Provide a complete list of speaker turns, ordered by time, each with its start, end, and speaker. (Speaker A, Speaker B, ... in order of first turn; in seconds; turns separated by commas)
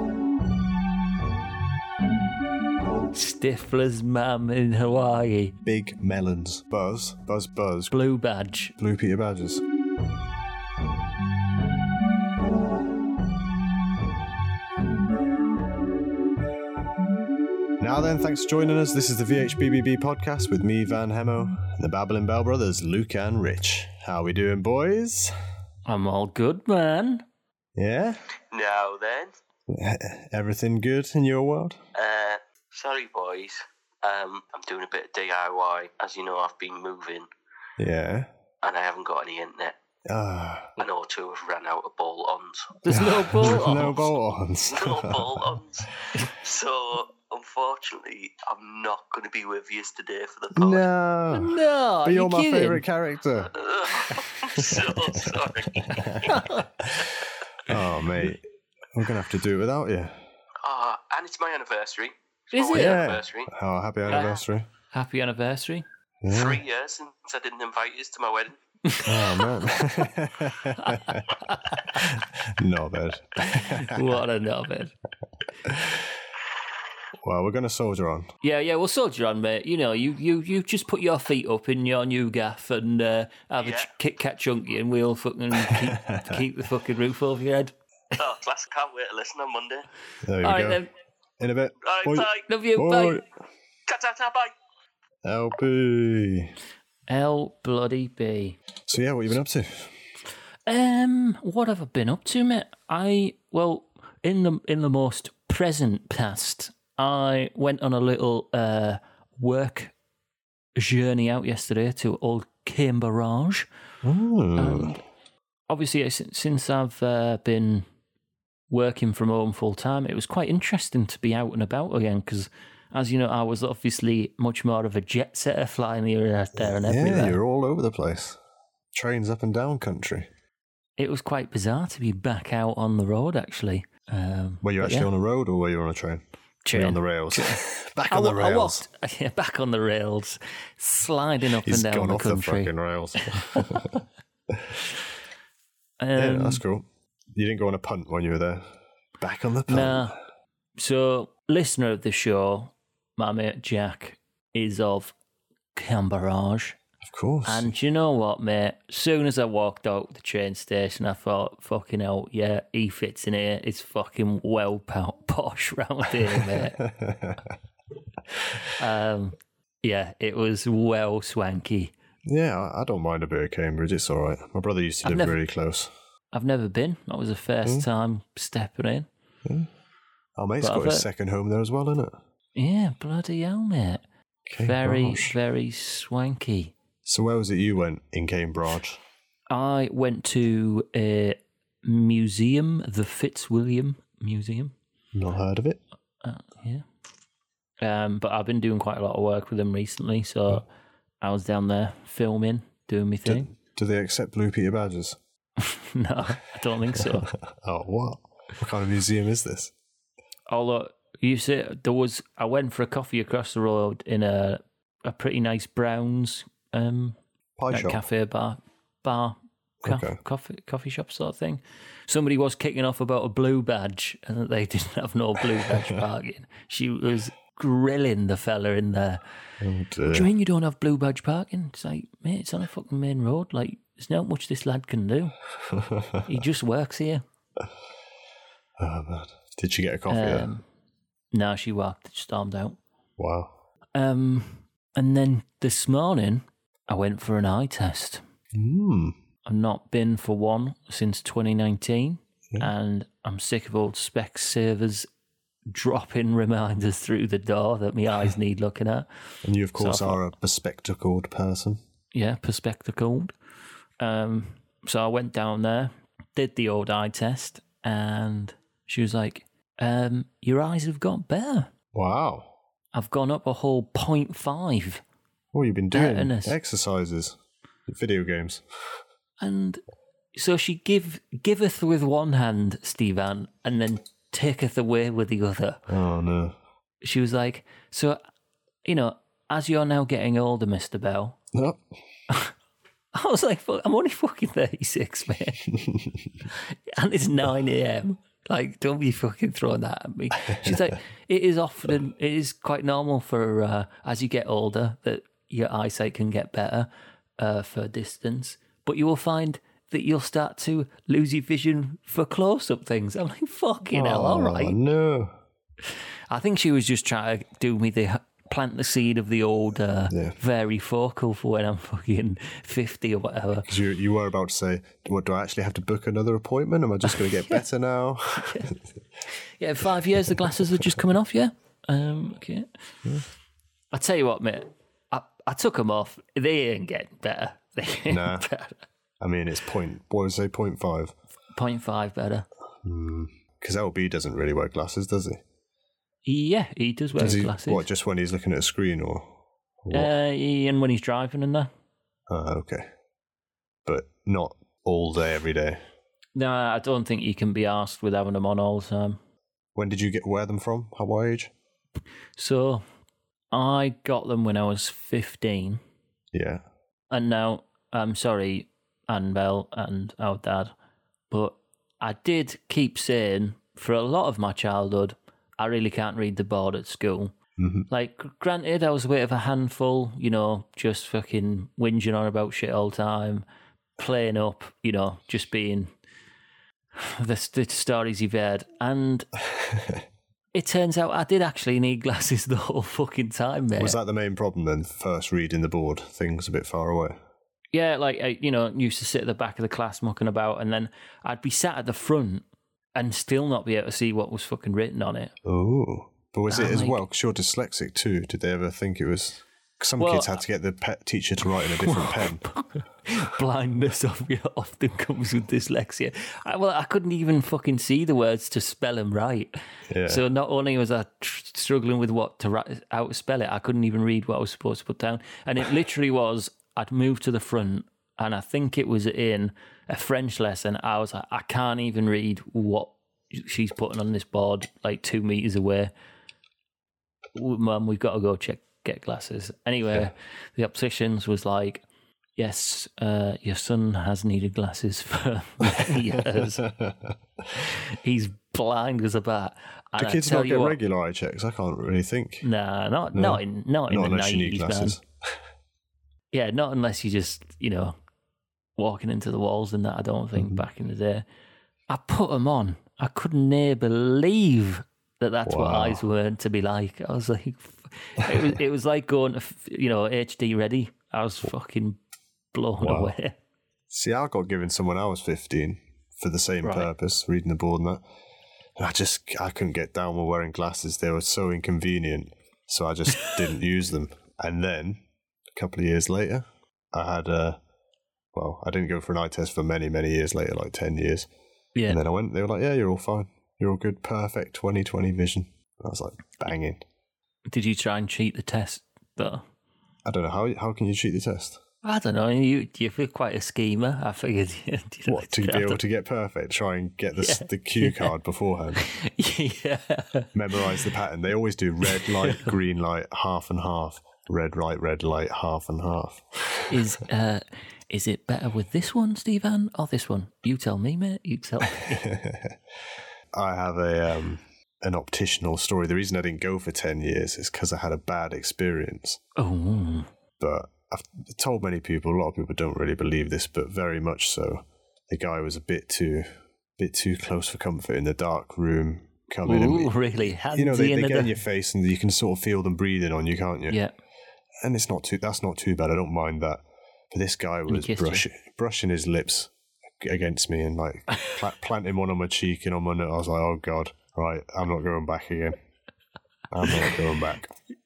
Speaker A: 3.1-5.6, Speaker B: 5.6-7.9, Speaker A: 7.9-8.8, Speaker B: 8.8-9.6, Speaker B: 17.8-25.3, Speaker A: 25.9-27.2, Speaker B: 27.8-28.2, Speaker C: 28.5-29.3, Speaker B: 29.7-31.8, Speaker C: 31.9-37.3, Speaker B: 37.8-38.3, Speaker C: 38.6-39.8, Speaker B: 40.0-40.8, Speaker C: 40.8-42.8, Speaker A: 42.8-44.1, Speaker B: 42.9-45.6, Speaker C: 44.7-50.9, Speaker B: 50.5-53.5, Speaker A: 51.3-52.8, Speaker C: 53.5-56.5, Speaker B: 54.1-60.2, Speaker A: 56.2-56.7, Speaker C: 60.6-63.5, Speaker A: 62.5-63.0, Speaker B: 62.7-64.7, Speaker A: 64.1-64.3, Speaker A: 64.9-65.8, Speaker B: 66.2-66.6, Speaker C: 66.3-68.6, Speaker A: 68.9-69.1, Speaker B: 69.0-74.2, Speaker A: 70.7-72.1, Speaker A: 73.4-74.9, Speaker B: 75.6-76.2, Speaker B: 77.2-78.3, Speaker A: 78.4-87.7, Speaker C: 83.6-83.9, Speaker B: 85.6-86.4, Speaker C: 88.1-89.8, Speaker B: 90.2-90.8, Speaker A: 90.4-90.9, Speaker B: 91.4-93.2, Speaker C: 91.8-92.5, Speaker A: 92.4-93.2, Speaker C: 93.9-94.5, Speaker B: 95.2-96.5, Speaker A: 97.1-98.6, Speaker B: 98.9-99.9, Speaker A: 100.7-109.9, Speaker A: 110.8-113.7, Speaker B: 114.0-115.0, Speaker A: 114.5-115.0, Speaker A: 115.7-117.9, Speaker A: 118.7-127.4, Speaker B: 126.5-128.4, Speaker B: 128.9-130.3, Speaker A: 131.0-135.1, Speaker B: 134.6-136.2, Speaker A: 136.7-143.9, Speaker B: 136.7-138.8, Speaker B: 141.6-144.9, Speaker A: 146.0-146.6, Speaker B: 146.2-150.2, Speaker A: 149.7-150.2, Speaker A: 150.8-155.2, Speaker A: 155.8-156.8, Speaker B: 157.0-157.7, Speaker A: 157.5-166.8, Speaker B: 166.4-167.5, Speaker A: 168.7-171.9, Speaker B: 172.3-175.9, Speaker A: 175.0-175.4, Speaker A: 176.3-179.1, Speaker B: 180.4-182.2, Speaker A: 180.6-181.1, Speaker A: 182.6-184.0, Speaker B: 184.5-185.4, Speaker A: 184.6-186.7, Speaker B: 187.1-189.0, Speaker A: 189.5-194.8, Speaker B: 195.1-195.8, Speaker A: 196.2-196.8, Speaker A: 197.8-200.7, Speaker A: 201.2-203.5, Speaker B: 203.2-205.2, Speaker A: 205.6-207.3, Speaker B: 206.9-209.7, Speaker A: 210.5-217.2, Speaker B: 217.6-218.0, Speaker A: 217.7-229.2, Speaker B: 219.8-220.2, Speaker B: 225.7-225.9, Speaker B: 229.6-230.3, Speaker A: 230.1-235.4, Speaker B: 235.7-236.2, Speaker A: 236.2-237.2, Speaker B: 238.8-240.5, Speaker A: 240.1-240.7, Speaker A: 241.3-242.8, Speaker B: 243.2-243.5, Speaker A: 243.9-248.2, Speaker B: 248.5-249.2, Speaker A: 249.5-255.1, Speaker A: 255.7-259.1, Speaker B: 259.4-261.8, Speaker A: 259.8-260.2, Speaker A: 262.1-263.3, Speaker A: 264.0-271.7, Speaker B: 271.9-272.5, Speaker A: 272.9-275.0, Speaker B: 275.5-277.4, Speaker A: 275.9-276.6, Speaker B: 277.9-279.0, Speaker A: 279.4-279.8, Speaker A: 280.3-285.8, Speaker B: 285.9-286.6, Speaker A: 287.0-288.2, Speaker A: 288.8-291.4, Speaker B: 291.5-291.8, Speaker A: 293.1-295.7, Speaker B: 295.9-296.1, Speaker A: 296.5-314.8, Speaker B: 300.5-300.8, Speaker B: 313.9-315.4, Speaker A: 316.3-323.7, Speaker B: 320.1-320.4, Speaker B: 323.6-328.8, Speaker A: 328.4-328.7, Speaker A: 329.3-332.7, Speaker B: 330.2-330.6, Speaker A: 333.9-338.9, Speaker B: 338.1-338.4, Speaker B: 339.2-341.1, Speaker A: 341.5-342.5, Speaker B: 342.8-345.4, Speaker A: 346.2-347.8, Speaker B: 347.1-350.1, Speaker A: 349.9-351.7, Speaker B: 352.3-352.9, Speaker B: 353.8-355.8, Speaker A: 356.3-359.2, Speaker B: 359.8-361.5, Speaker A: 362.4-362.8, Speaker A: 363.5-365.8, Speaker B: 366.3-366.6, Speaker A: 367.1-370.7, Speaker A: 371.3-377.3, Speaker B: 377.6-377.9, Speaker A: 377.9-383.4, Speaker A: 384.0-385.9, Speaker A: 386.9-389.3, Speaker B: 389.5-390.0, Speaker A: 390.5-394.0, Speaker B: 393.8-397.2, Speaker A: 397.7-405.3, Speaker B: 405.4-412.4, Speaker A: 406.5-407.0, Speaker A: 410.0-410.4, Speaker A: 411.6-435.9, Speaker B: 419.9-420.2, Speaker A: 437.3-441.8, Speaker A: 442.4-446.6, Speaker B: 445.6-447.5, Speaker A: 447.6-450.8, Speaker B: 450.0-452.4, Speaker A: 452.4-455.0, Speaker B: 453.1-455.4, Speaker A: 456.3-457.9, Speaker A: 458.8-461.2, Speaker B: 460.4-460.6, Speaker A: 461.9-472.0, Speaker B: 465.4-466.0, Speaker A: 472.5-473.4, Speaker B: 472.8-473.1, Speaker B: 473.9-478.0, Speaker A: 476.6-476.9, Speaker B: 478.8-485.0, Speaker B: 485.5-487.6, Speaker B: 488.3-491.3, Speaker B: 491.9-496.8, Speaker A: 497.5-499.4, Speaker B: 500.0-501.6, Speaker A: 501.8-505.8, Speaker B: 505.1-508.9, Speaker A: 507.2-508.1, Speaker A: 508.8-510.8, Speaker B: 510.3-516.8, Speaker A: 511.9-512.5, Speaker A: 516.7-522.1, Speaker B: 521.8-522.6, Speaker B: 523.3-529.2, Speaker A: 529.4-530.1, Speaker B: 530.4-539.9, Speaker A: 539.4-541.4, Speaker B: 540.5-543.8, Speaker B: 544.6-555.6, Speaker A: 547.7-548.2, Speaker B: 556.5-557.5